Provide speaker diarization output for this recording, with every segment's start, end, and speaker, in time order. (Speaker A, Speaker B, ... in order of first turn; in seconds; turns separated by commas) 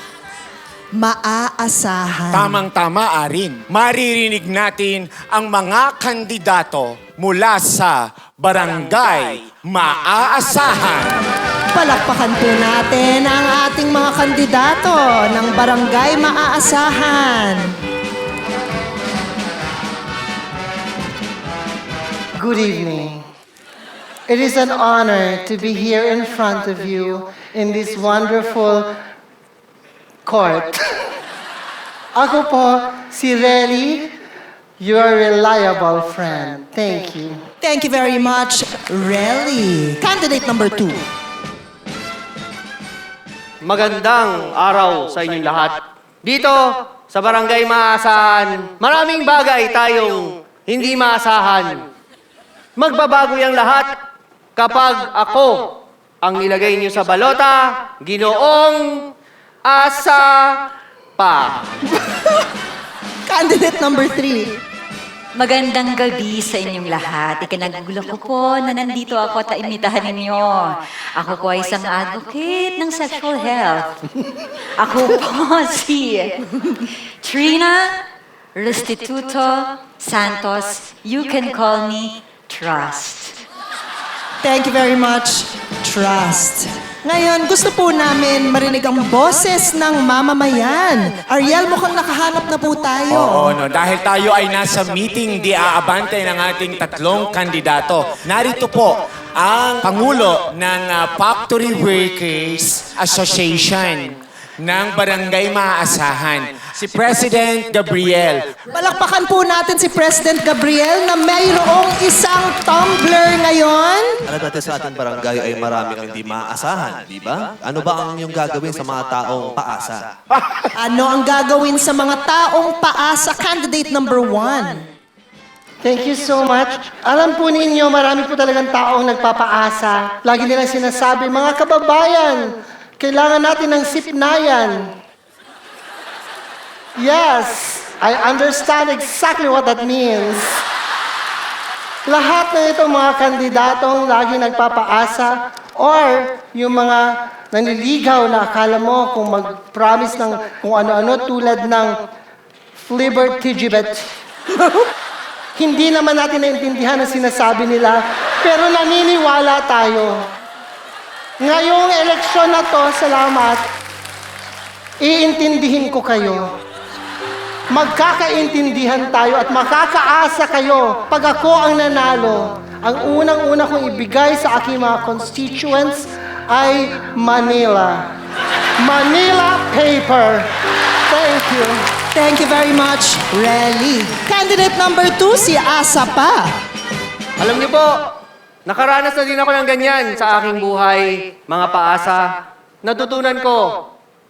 Speaker A: 1.0-2.6, Speaker B: 2.3-11.1, Speaker A: 11.7-17.7, Speaker C: 22.4-23.2, Speaker C: 24.3-29.0, Speaker C: 30.2-30.8, Speaker C: 32.1-34.1, Speaker C: 34.8-37.4, Speaker A: 37.6-41.0, Speaker D: 43.6-51.8, Speaker D: 52.8-54.0, Speaker D: 54.5-59.1, Speaker D: 59.6-60.6, Speaker D: 61.2-61.7, Speaker A: 63.3-64.5, Speaker E: 65.3-74.0, Speaker E: 74.8-78.0, Speaker E: 78.5-83.4, Speaker A: 84.4-93.6, Speaker B: 93.1-108.4, Speaker A: 108.7-114.2, Speaker F: 114.3-120.2, Speaker A: 120.8-124.8, Speaker C: 125.8-134.9, Speaker C: 137.0-140.6, Speaker C: 142.1-152.0, Speaker C: 152.9-154.2, Speaker C: 155.5-160.2, Speaker C: 161.4-163.7, Speaker C: 165.0-166.5, Speaker C: 167.7-178.1, Speaker C: 178.8-180.5, Speaker C: 181.1-181.8, Speaker A: 182.1-186.5, Speaker D: 187.4-188.1, Speaker D: 188.7-192.3, Speaker D: 192.8-193.8